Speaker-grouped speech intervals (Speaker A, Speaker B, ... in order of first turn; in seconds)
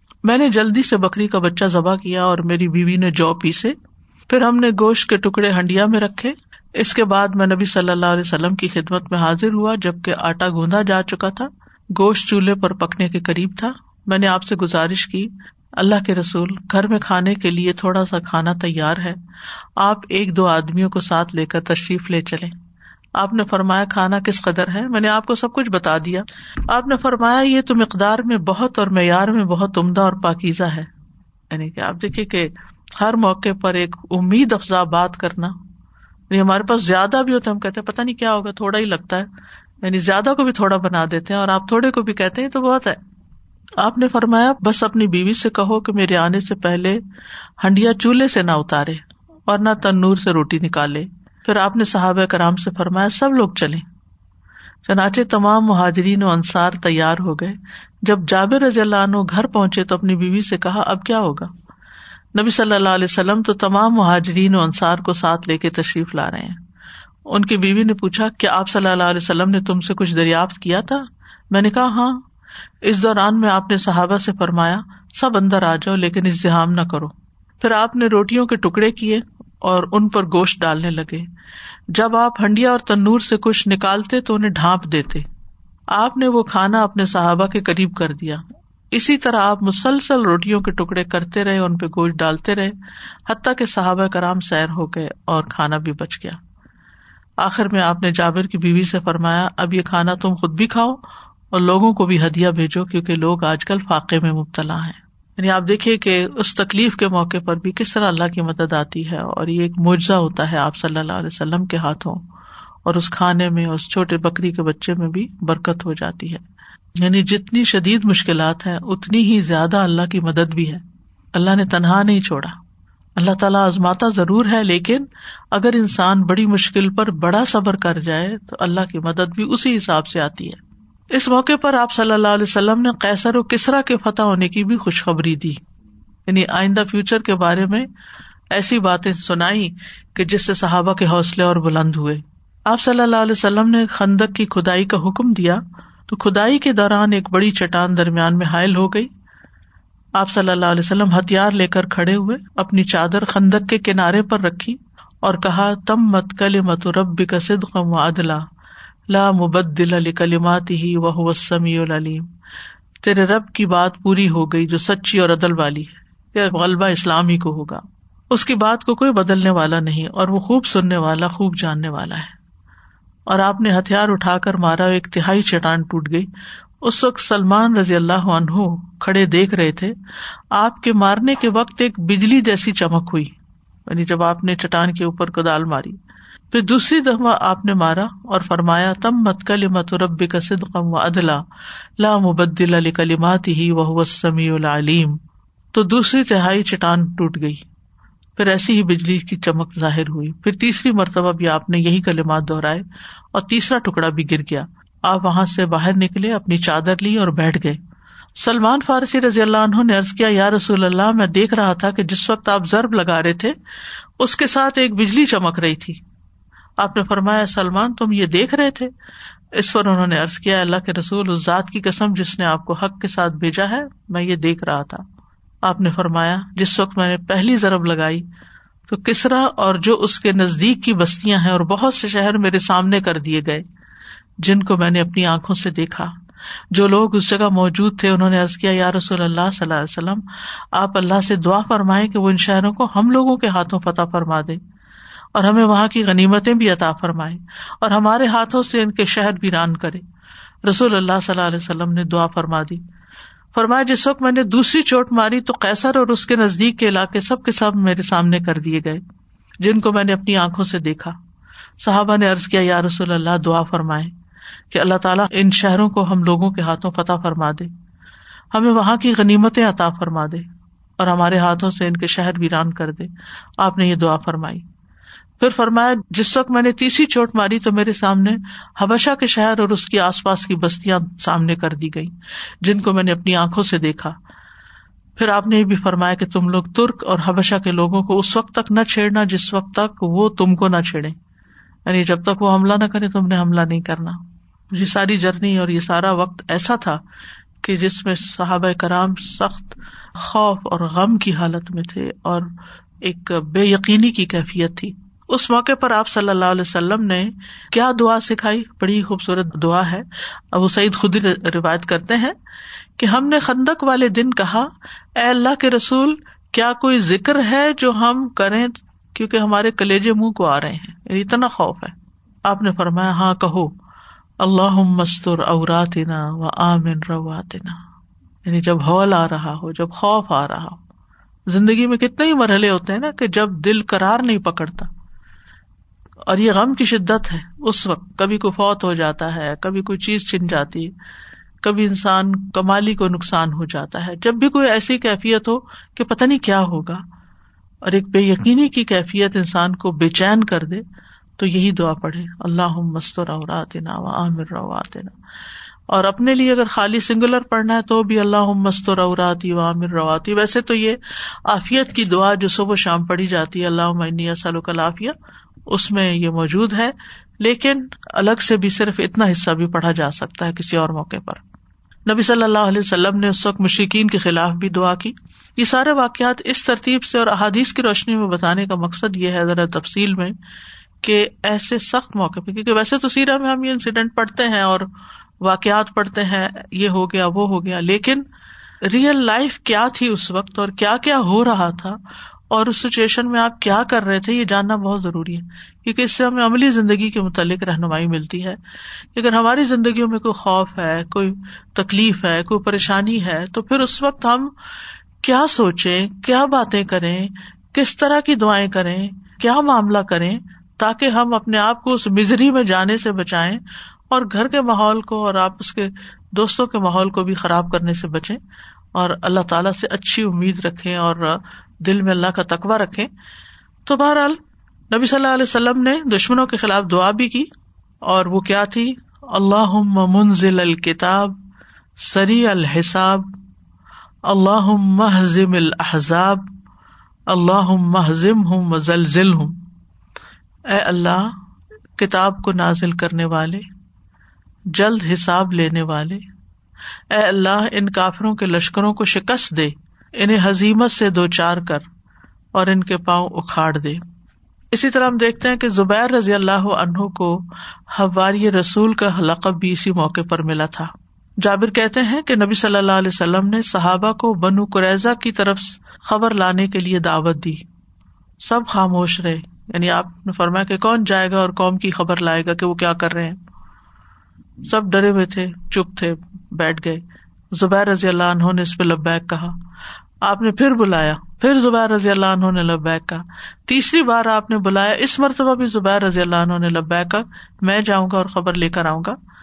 Speaker A: 0.2-3.7, 4.3-19.2, 19.8-22.5, 23.2-30.9, 31.5-35.5, 36.3-39.3, 39.8-43.0, 43.8-47.0, 47.6-53.8, 54.9-61.5, 62.4-66.6, 67.3-72.2, 72.8-81.3, 81.9-85.2, 85.9-88.4, 88.9-92.7, 93.3-96.4, 97.4-101.0, 101.5-112.2, 112.8-116.4, 117.0-120.8, 121.3-122.5, 123.2-130.6, 131.1-135.6, 136.3-137.9, 138.5-149.1, 150.2-158.4, 159.1-162.2, 163.0-172.3, 173.3-176.3, 176.8-179.9, 180.5-183.3, 183.9-186.0, 186.5-191.4, 192.0-195.2, 195.7-197.6, 198.4-207.8, 208.4-213.5, 214.2-216.0, 216.8-218.9, 219.6-225.0, 225.6-228.2, 228.9-233.6, 234.4-236.1, 236.7-240.2, 240.7-244.6, 245.3-250.0, 250.7-252.8, 253.5-259.0, 259.6-261.1, 261.8-264.1, 264.7-267.7, 268.5-270.4, 271.0-274.6, 275.4-284.1, 285.2-291.1, 291.9-294.2, 294.7-297.0, 297.6-302.5, 303.0-312.3, 313.0-321.9, 322.4-323.7, 324.4-327.8, 328.4-330.8, 331.5-334.9, 336.3-340.9, 341.6-347.0, 347.8-350.8, 351.4-355.1, 355.9-365.1, 365.7-371.4, 372.1-380.3, 381.0-384.9, 385.4-388.2, 388.9-392.0, 392.5-398.6, 399.1-404.5, 405.2-418.4, 418.9-423.1, 423.9-424.4, 424.9-427.5, 428.0-431.4, 432.0-433.3, 434.3-436.5, 437.3-439.6, 440.7-441.3, 442.0-443.6, 444.7-446.2, 447.1-451.8, 452.5-454.0, 454.7-467.6, 468.4-473.4, 474.6-477.0, 477.5-479.5, 480.2-489.1